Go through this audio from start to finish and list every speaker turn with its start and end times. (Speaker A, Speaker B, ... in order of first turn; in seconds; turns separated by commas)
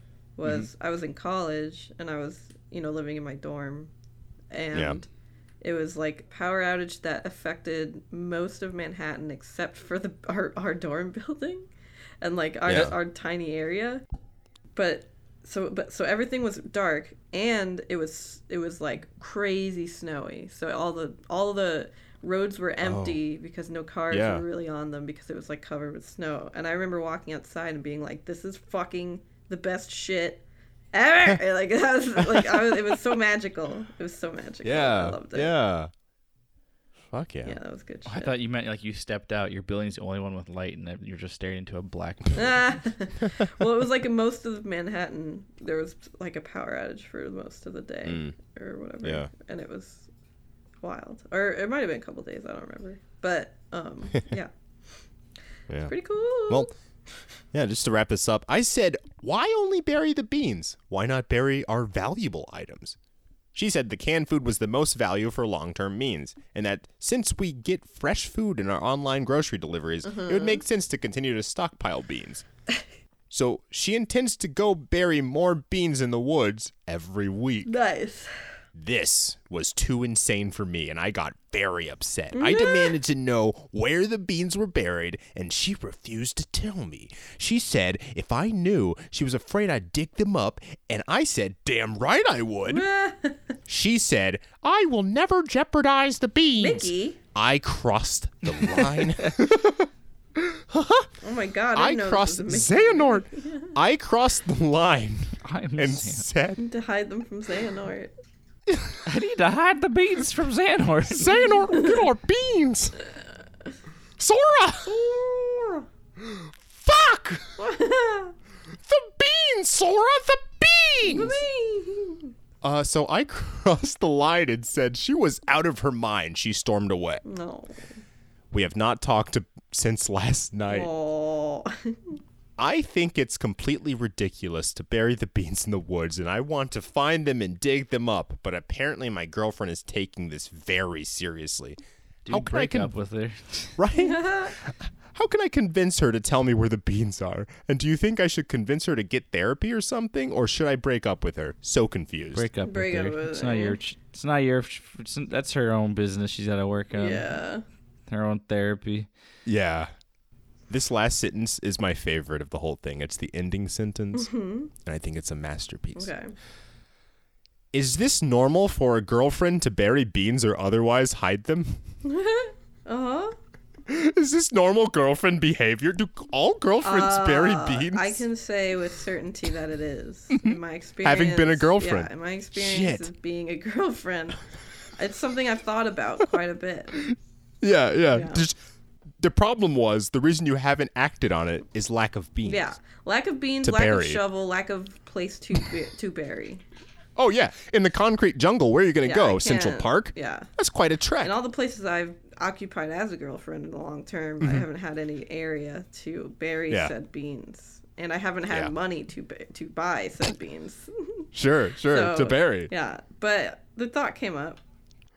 Speaker A: 0.4-3.9, Speaker A: 4.5-5.1, Speaker B: 4.7-5.0, Speaker A: 5.6-11.7, Speaker A: 12.2-14.0, Speaker B: 12.7-12.9, Speaker A: 14.7-35.5, Speaker B: 22.8-23.2, Speaker B: 24.1-24.4, Speaker B: 32.2-33.0, Speaker B: 34.6-35.9, Speaker B: 37.1-37.6, Speaker A: 37.4-38.3, Speaker C: 38.0-42.6, Speaker A: 42.3-50.1, Speaker B: 48.0-48.4, Speaker B: 49.0-49.3, Speaker A: 50.8-54.5, Speaker A: 55.9-56.7, Speaker B: 57.5-63.0, Speaker B: 63.5-72.4, Speaker A: 70.0-70.6, Speaker B: 73.3-77.7, Speaker A: 77.6-78.3, Speaker B: 78.8-92.8, Speaker A: 82.3-82.9, Speaker A: 92.7-93.5, Speaker B: 93.7-101.1, Speaker A: 96.6-97.2, Speaker C: 98.6-99.3, Speaker A: 101.2-103.7, Speaker B: 101.7-106.6, Speaker C: 105.4-106.3, Speaker A: 106.6-108.1, Speaker C: 109.0-111.5, Speaker B: 111.1-112.9, Speaker A: 111.7-112.0, Speaker B: 114.2-114.9, Speaker A: 114.8-115.8, Speaker B: 116.2-117.5, Speaker A: 117.6-118.3, Speaker B: 118.7-121.4, Speaker A: 121.0-122.3, Speaker B: 122.6-127.2, Speaker A: 127.2-127.8, Speaker B: 128.5-130.9, Speaker A: 130.7-132.2, Speaker B: 132.6-142.9, Speaker C: 142.2-143.8, Speaker B: 143.8-152.5, Speaker A: 143.9-144.5, Speaker C: 152.3-157.3, Speaker A: 152.6-153.8, Speaker A: 156.9-157.6, Speaker C: 158.1-159.1, Speaker B: 159.4-159.9, Speaker B: 160.7-164.3, Speaker A: 164.2-164.7, Speaker B: 164.8-166.1, Speaker A: 165.9-166.3, Speaker B: 167.7-171.8, Speaker A: 172.0-173.3, Speaker B: 173.9-178.2, Speaker A: 176.8-184.4, Speaker B: 180.4-183.1, Speaker A: 185.0-187.1, Speaker B: 187.1-188.6, Speaker A: 188.1-188.4, Speaker B: 189.2-192.7, Speaker A: 192.4-196.6, Speaker B: 193.6-194.2, Speaker B: 197.2-201.3, Speaker A: 199.0-200.5, Speaker A: 201.2-211.3, Speaker B: 204.4-204.7, Speaker B: 211.3-212.7, Speaker A: 211.9-214.6